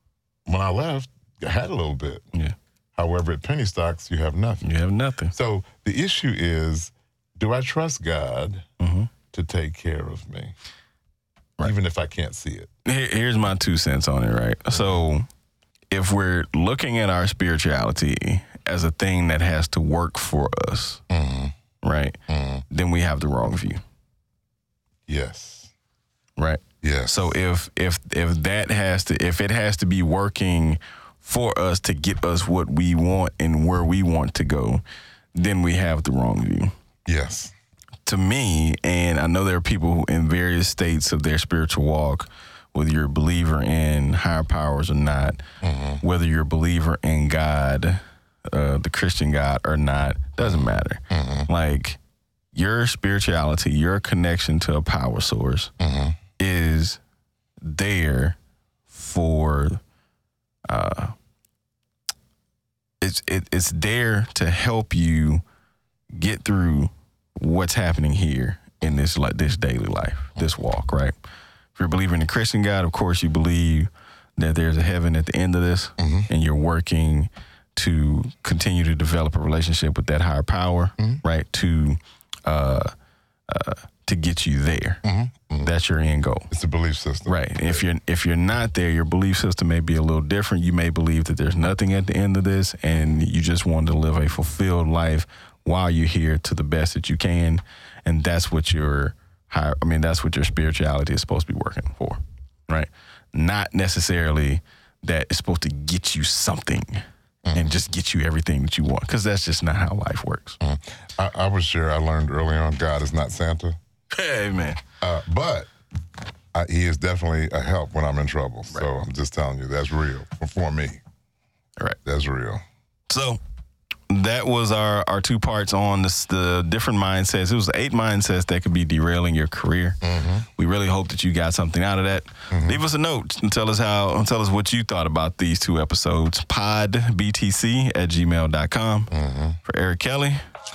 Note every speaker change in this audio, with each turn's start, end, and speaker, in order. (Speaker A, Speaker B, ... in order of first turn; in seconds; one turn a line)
Speaker A: 0.5-2.2
Speaker A: 3.0-4.7
Speaker B: 4.6-5.3
Speaker A: 5.3-8.7
Speaker B: 8.8-9.1
Speaker A: 9.3-10.5
Speaker A: 11.6-12.7
Speaker B: 12.8-15.3
Speaker B: 15.9-21.0
Speaker A: 21.1-21.5
Speaker B: 21.8-22.2
Speaker A: 22.3-22.6
Speaker B: 22.7-23.8
Speaker A: 25.1-25.7
Speaker B: 26.4-34.8
Speaker A: 26.8-27.4
Speaker B: 35.4-36.7
Speaker A: 37.1-37.5
Speaker B: 38.1-45.4
Speaker A: 45.6-46.0
Speaker B: 46.0-52.0
Speaker A: 51.1-51.5
Speaker B: 52.5-55.7
Speaker A: 55.8-56.2
Speaker B: 56.4-57.0
Speaker B: 57.6-58.4
Speaker B: 58.9-59.8
Speaker B: 60.7-61.1
Speaker B: 63.0-65.4
Speaker B: 66.1-71.1
Speaker B: 71.8-82.9
Speaker A: 76.0-76.3
Speaker B: 83.5-85.0
Speaker A: 85.0-85.7
Speaker B: 85.6-86.5
Speaker A: 86.5-87.9
Speaker B: 87.3-107.0
Speaker A: 107.5-107.8
Speaker B: 107.5-110.6
Speaker A: 110.6-113.8
Speaker B: 114.1-114.8
Speaker A: 115.0-115.7
Speaker A: 116.5-121.0
Speaker A: 122.0-122.6
Speaker B: 123.1-123.4
Speaker B: 124.1-130.0
Speaker A: 130.0-130.5
Speaker B: 130.6-139.1
Speaker A: 132.5-132.8
Speaker A: 139.1-139.6
Speaker B: 139.6-140.4